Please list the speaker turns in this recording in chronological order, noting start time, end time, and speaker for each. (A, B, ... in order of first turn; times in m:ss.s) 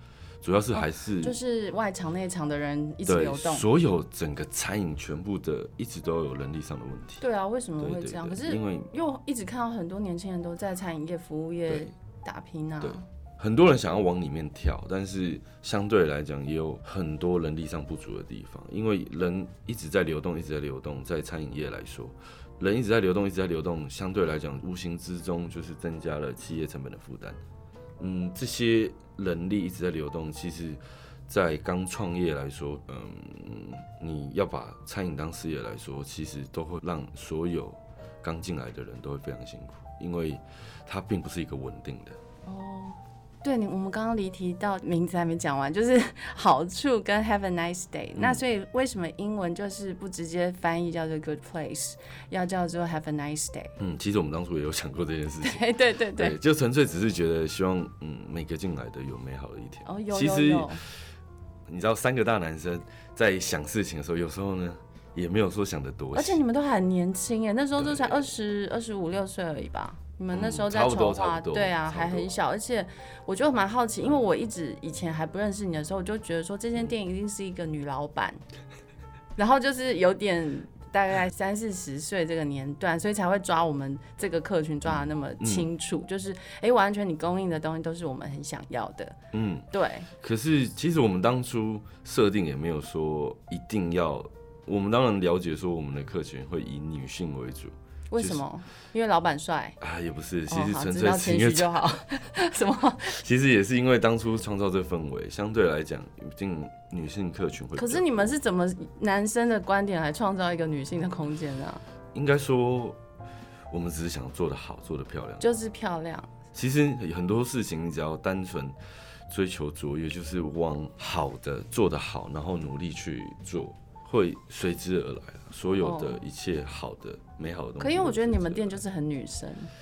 0:00.4-0:01.4 A
0:00.7-0:03.6 B
0:03.0-0:07.2 A
0:07.2-0:13.0 B
0:07.8-0:08.9 A
0:12.8-0:27.4 A
0:28.0-0:42.2 A
0:42.4-0:53.7 B
0:48.2-0:48.4 A
0:53.8-1:00.8 A
0:55.4-0:56.4 B
0:59.8-1:00.8 B
1:01.7-1:06.4 A
1:06.1-1:18.4 B
1:07.8-1:08.3 A
1:10.3-1:12.3 A
1:19.4-1:29.2 B
1:24.9-1:25.7 A
1:29.3-1:29.7 A
1:29.7-1:30.1 B
1:30.2-1:38.4 A
1:38.1-1:39.8 B
1:39.8-1:41.9 A
1:40.5-1:43.2 B
1:43.1-1:48.3 A
1:47.8-1:51.8 B
1:52.1-1:53.0 A
1:53.7-1:55.5 A
1:55.4-1:56.3 B
1:56.5-1:58.8 A
1:59.3-2:08.8 A
2:05.8-2:06.2 B
2:07.8-2:09.7 B